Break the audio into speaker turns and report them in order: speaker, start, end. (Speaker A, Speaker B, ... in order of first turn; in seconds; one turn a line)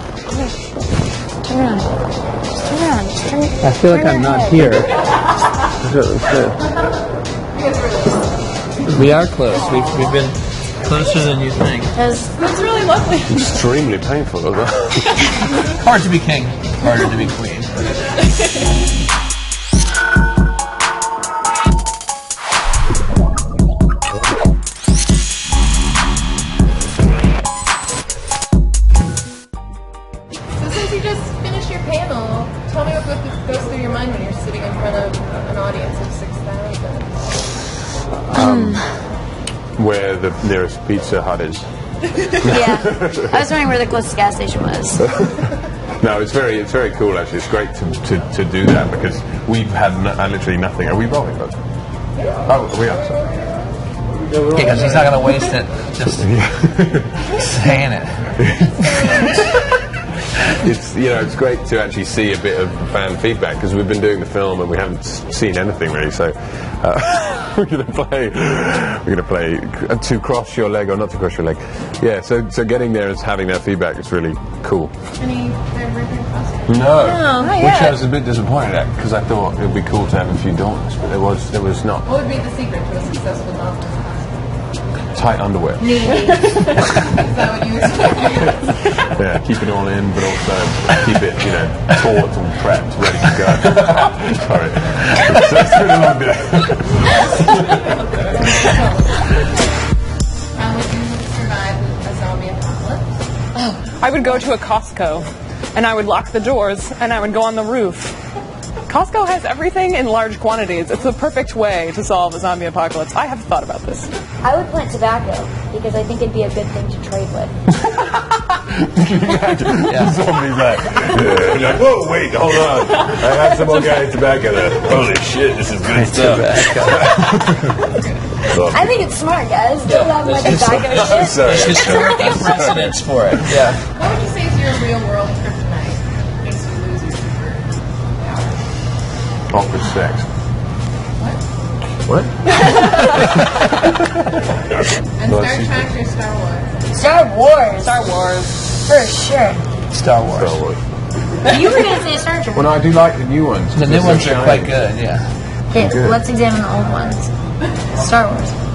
Speaker A: 1.4-2.0
Speaker A: 2.5-4.7
Speaker B: 3.6-5.0
Speaker C: 5.9-6.5
Speaker D: 7.5-8.2
Speaker B: 8.9-11.9
Speaker A: 11.9-12.3
Speaker E: 12.4-13.5
Speaker C: 13.3-15.3
Speaker B: 15.7-17.9
Speaker D: 30.6-37.2
Speaker C: 38.3-38.9
Speaker A: 38.4-38.8
Speaker C: 39.8-41.7
Speaker C: 42.4-43.5
Speaker A: 42.4-45.1
Speaker C: 45.0-51.6
Speaker C: 52.5-53.3
Speaker B: 54.4-56.3
Speaker C: 56.1-57.3
Speaker B: 57.3-59.3
Speaker C: 58.5-59.4
Speaker C: 60.5-74.9
Speaker D: 75.2-76.9
Speaker C: 76.7-82.1
Speaker A: 77.0-77.5
Speaker E: 77.4-78.0
Speaker D: 82.1-84.4
Speaker C: 85.1-86.1
Speaker A: 85.8-86.7
Speaker D: 86.0-89.1
Speaker C: 89.0-97.9
Speaker D: 98.1-99.0
Speaker D: 100.5-103.2
Speaker E: 103.8-108.2
Speaker E: 108.9-114.1
Speaker A: 114.4-117.5
Speaker C: 118.7-127.9
Speaker B: 119.7-120.1
Speaker E: 122.8-124.1
Speaker B: 125.8-127.4
Speaker C: 128.4-128.9
Speaker A: 128.5-132.5
Speaker B: 129.8-133.8
Speaker C: 130.9-133.0
Speaker D: 133.9-137.7
Speaker C: 139.5-140.3
Speaker C: 142.0-142.3
Speaker D: 145.2-146.8
Speaker C: 145.2-145.9
Speaker A: 146.9-148.1
Speaker E: 147.8-148.6
Speaker A: 148.9-149.6
Speaker B: 149.9-150.6
Speaker C: 150.2-150.8
Speaker A: 151.5-152.8
Speaker C: 152.5-154.7
Speaker B: 153.7-155.3
Speaker A: 155.7-157.3
Speaker C: 155.8-156.2
Speaker A: 157.9-158.5